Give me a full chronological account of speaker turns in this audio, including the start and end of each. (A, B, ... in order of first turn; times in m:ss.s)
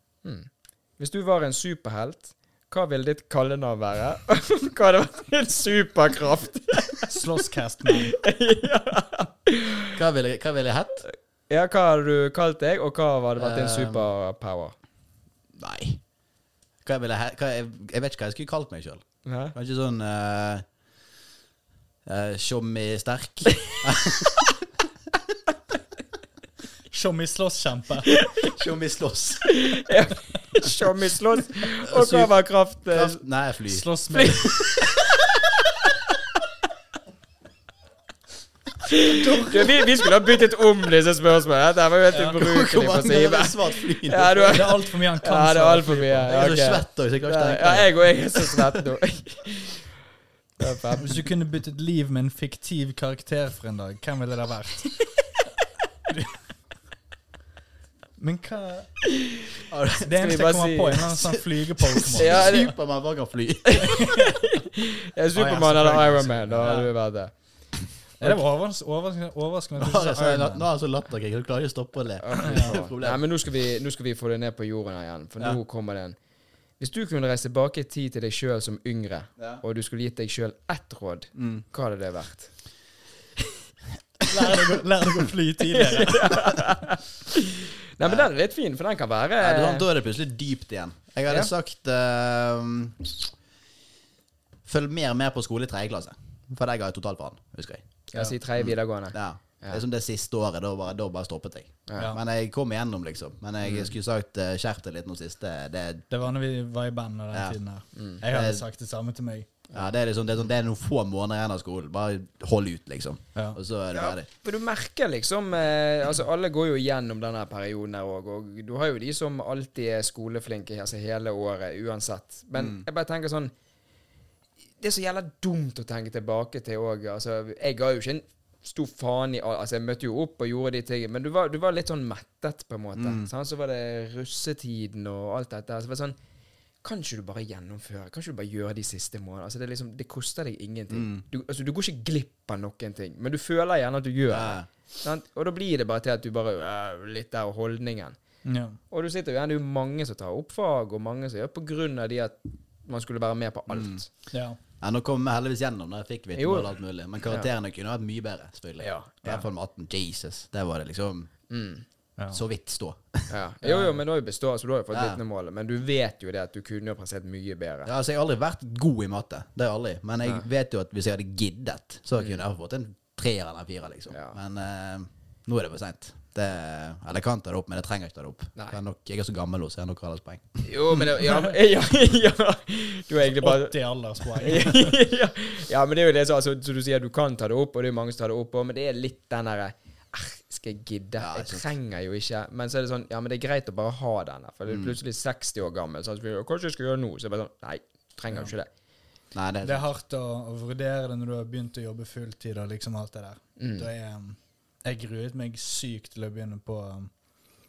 0:00.2-0:07.1 A
0:07.0-0:08.2 B
0:08.0-0:10.0 A
0:10.0-0:11.0 C
0:11.1-0:14.8 A
0:13.4-0:14.1 C
0:15.6-0:16.0 C
0:16.8-0:20.6 C
0:19.2-0:19.6 A
0:22.1-0:24.5 C
0:26.9-0:28.1 B
0:28.1-0:28.5 A
0:28.4-0:29.5 C
0:29.5-0:33.2 A
0:31.8-0:32.3 C
0:32.9-0:33.9 C
0:33.7-0:34.6 B
0:34.1-0:34.9 A
0:34.8-0:35.4 C
0:35.8-0:36.1 A
0:38.8-0:49.9 A
0:39.1-0:39.9 B
0:42.3-0:44.6 C
0:44.5-0:46.3 B
0:46.3-0:48.8 C
0:50.6-0:51.3 A
0:51.0-0:54.9 B
0:58.2-0:59.0 B
0:59.7-1:00.2 C
1:00.0-1:02.7 B
1:00.2-1:01.1 A
1:01.2-1:04.0 C
1:02.2-1:02.8 A
1:03.7-1:07.3 A
1:03.9-1:04.4 B
1:05.4-1:06.9 B
1:08.2-1:10.6 B
1:09.8-1:13.2 C
1:12.2-1:16.2 A
1:12.4-1:12.7 B
1:16.8-1:22.5 A
1:19.4-1:19.6 C
1:21.4-1:21.6 C
1:24.3-1:26.7 B
1:25.7-1:29.9 A
1:28.0-1:28.3 C
1:29.4-1:33.3 C
1:34.7-1:37.8 C
1:38.1-1:39.8 A
1:38.6-1:46.0 C
1:41.9-1:42.1 A
1:46.1-1:49.5 B
1:47.3-1:47.6 C
1:48.0-1:48.2 A
1:48.2-1:48.6 C
1:49.7-1:54.3 C
1:53.9-2:03.5 A
2:02.6-2:02.8 C
2:04.8-2:16.2 A
2:13.0-2:13.3 C
2:16.8-2:28.2 A
2:20.9-2:21.2 C
2:24.3-2:24.7 C
2:28.4-2:28.8 B
2:28.9-2:34.1 A
2:33.7-2:34.0 C
2:34.3-2:34.6 B
2:34.8-2:41.3 C
2:36.4-2:36.7 A
2:38.8-2:39.4 A
2:41.5-2:41.8 A
2:42.2-2:42.4 B
2:42.3-2:43.3 C
2:43.3-2:47.9 A
2:44.9-2:45.2 C
2:47.9-3:00.6 C
2:54.1-2:54.4 A
3:00.6-3:18.7 A
3:03.3-3:05.0 B
3:11.2-3:11.7 C
3:14.7-3:15.0 C
3:19.3-3:19.8 C
3:19.6-3:27.1 B
3:23.6-3:23.9 A